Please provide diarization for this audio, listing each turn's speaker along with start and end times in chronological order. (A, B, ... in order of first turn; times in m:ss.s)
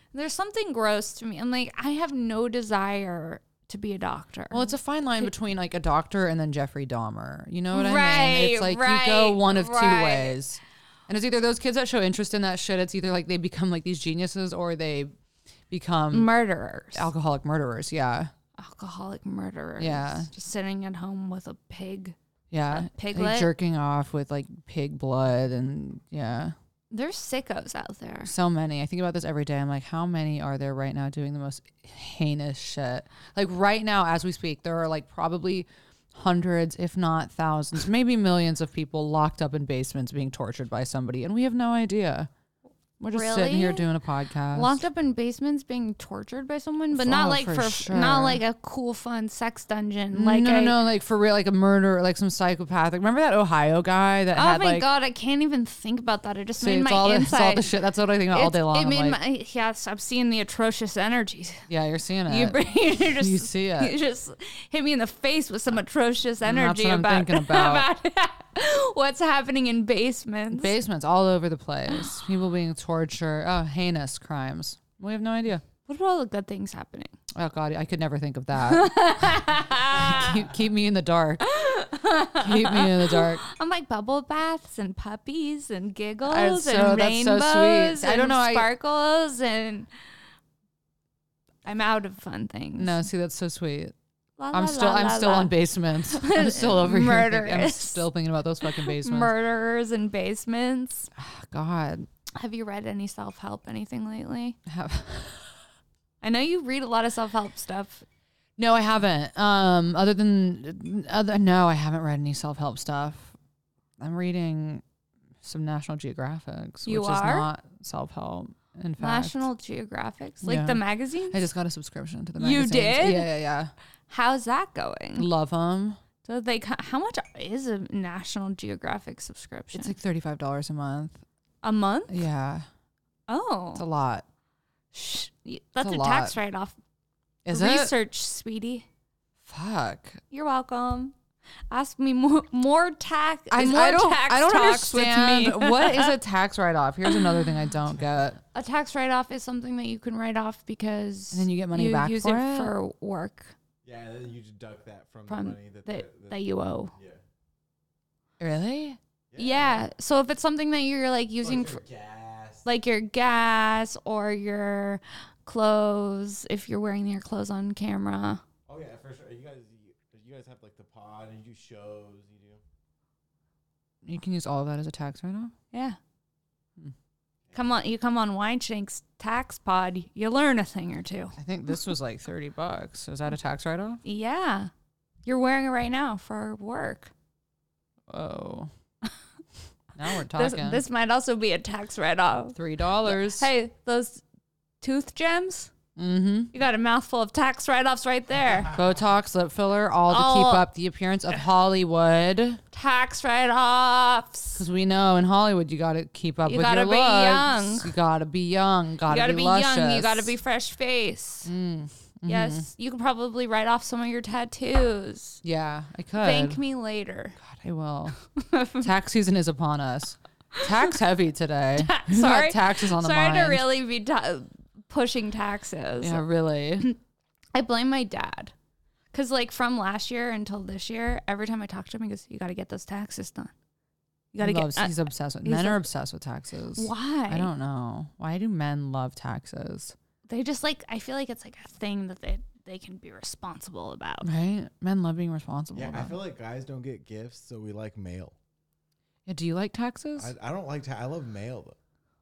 0:00.1-0:04.7 A
0:04.5-0:15.1 B
0:07.7-0:10.4 A
0:15.7-0:16.3 B
0:16.1-0:17.1 A
0:16.9-0:18.3 B
0:18.6-0:22.2 A
0:19.8-0:20.3 B
0:22.5-0:26.5 B
0:22.7-0:23.5 A
0:26.9-0:28.3 A
0:28.2-0:42.3 B
0:43.0-0:43.9 A
0:43.0-0:44.8 B
0:44.5-0:50.8 A
0:46.9-0:48.4 B
0:50.1-0:54.9 B
0:54.3-0:57.7 A
0:56.6-0:59.2 B
0:58.3-1:01.6 A
1:01.7-1:03.9 B
1:02.3-1:10.7 A
1:06.4-1:07.8 B
1:10.5-1:15.6 B
1:15.8-1:17.1 A
1:17.3-1:21.4 B
1:18.6-1:20.4 A
1:21.4-1:29.9 A
1:22.4-1:23.4 B
1:26.2-1:28.7 B
1:31.6-1:33.0 A
1:32.8-1:33.9 B
1:34.4-1:38.0 A
1:34.5-1:39.3 B
1:38.6-1:41.1 A
1:41.2-1:42.1 B
1:42.4-1:44.6 A
1:44.6-1:45.5 B
1:46.2-1:48.0 A
1:48.6-1:53.4 B
1:54.0-1:54.8 B
1:55.4-1:59.4 B
1:56.8-1:57.5 A
1:59.0-2:01.4 A
2:00.4-2:03.7 B
2:02.4-2:03.3 A
2:04.1-2:05.3 A
2:05.2-2:06.0 B
2:06.2-2:09.9 A
2:09.7-2:11.2 B
2:11.6-2:12.2 A
2:12.1-2:12.6 B
2:13.3-2:13.8 A
2:13.7-2:14.2 B
2:14.9-2:16.8 A
2:15.8-2:16.3 B
2:17.4-2:17.9 B
2:17.5-2:18.8 A
2:19.4-2:20.2 B
2:20.3-2:21.1 A
2:21.7-2:26.2 A
2:23.5-2:28.4 B
2:28.5-2:33.5 A
2:31.3-2:32.7 B
2:33.8-2:37.2 C
2:35.3-2:36.9 A
2:38.4-2:39.0 B
2:39.3-2:39.9 C
2:39.4-2:41.8 A
2:41.4-2:42.6 C
2:42.6-2:48.4 A
2:48.7-2:52.6 C
2:54.0-2:55.5 B
2:55.7-2:56.0 A
2:57.5-2:57.7 C
2:57.5-3:01.4 A
3:01.4-3:04.0 B
3:04.0-3:04.7 A
3:05.2-3:07.1 A
3:08.1-3:08.7 B
3:09.9-3:10.8 B
3:10.3-3:14.2 A
3:12.5-3:13.5 B
3:14.8-3:15.7 A
3:16.0-3:16.5 B
3:16.5-3:18.7 A
3:18.7-3:22.6 B
3:20.1-3:20.7 A
3:22.7-3:24.6 A
3:24.6-3:30.3 B
3:26.4-3:27.9 A
3:29.0-3:31.5 A
3:31.4-3:32.7 B
3:32.3-3:35.4 A
3:35.4-3:36.6 B
3:36.2-3:37.4 A
3:37.4-3:38.2 B
3:38.4-3:38.9 A
3:38.8-3:43.6 B
3:41.8-3:46.2 A
3:46.0-3:46.9 B
3:47.5-3:48.5 A
3:49.1-3:53.5 A
3:54.3-3:55.8 A
3:54.4-3:59.9 B
3:56.7-3:57.5 A
4:00.3-4:04.3 A
4:04.2-4:06.2 B
4:05.7-4:08.3 C
4:09.2-4:10.3 B
4:10.2-4:11.8 C